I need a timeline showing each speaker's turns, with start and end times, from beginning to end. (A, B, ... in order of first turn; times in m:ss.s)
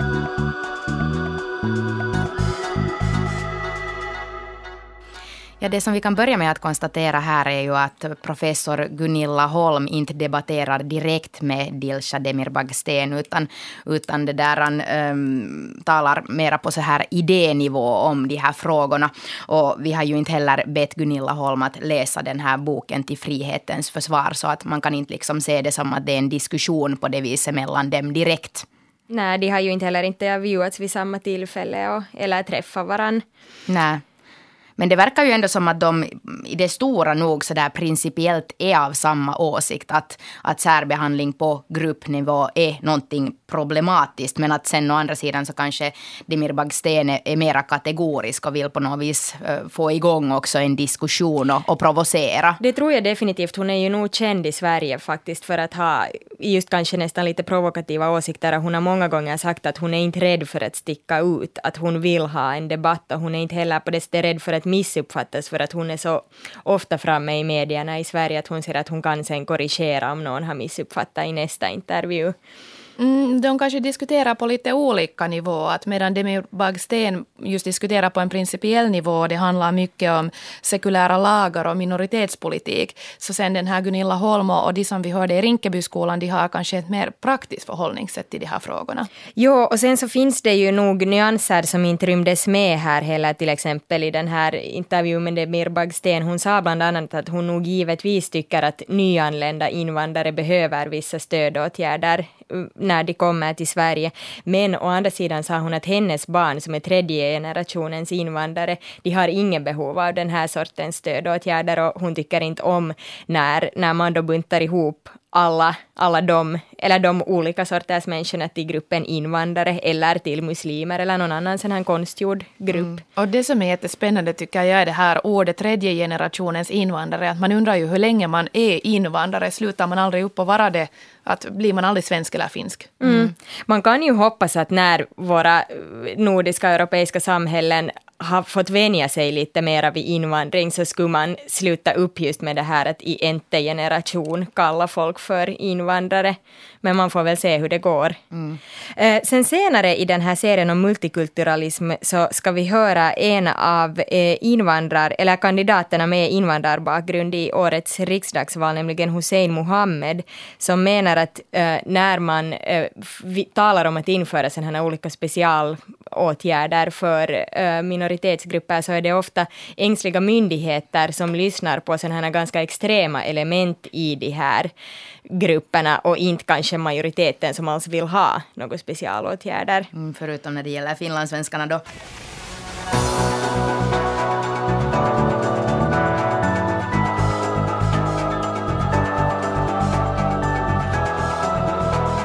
0:05.6-0:28.7 A
0:29.1-0:33.2 B
0:33.7-0:34.0 A
0:34.8-0:52.6 A
0:52.6-1:12.4 B
1:13.0-1:29.1 C
1:29.4-2:03.0 B
2:02.8-2:13.3 C
2:13.0-2:28.2 B
2:28.3-2:28.6 A
2:29.0-2:54.7 B
2:55.3-2:59.9 B
2:59.9-3:01.8 A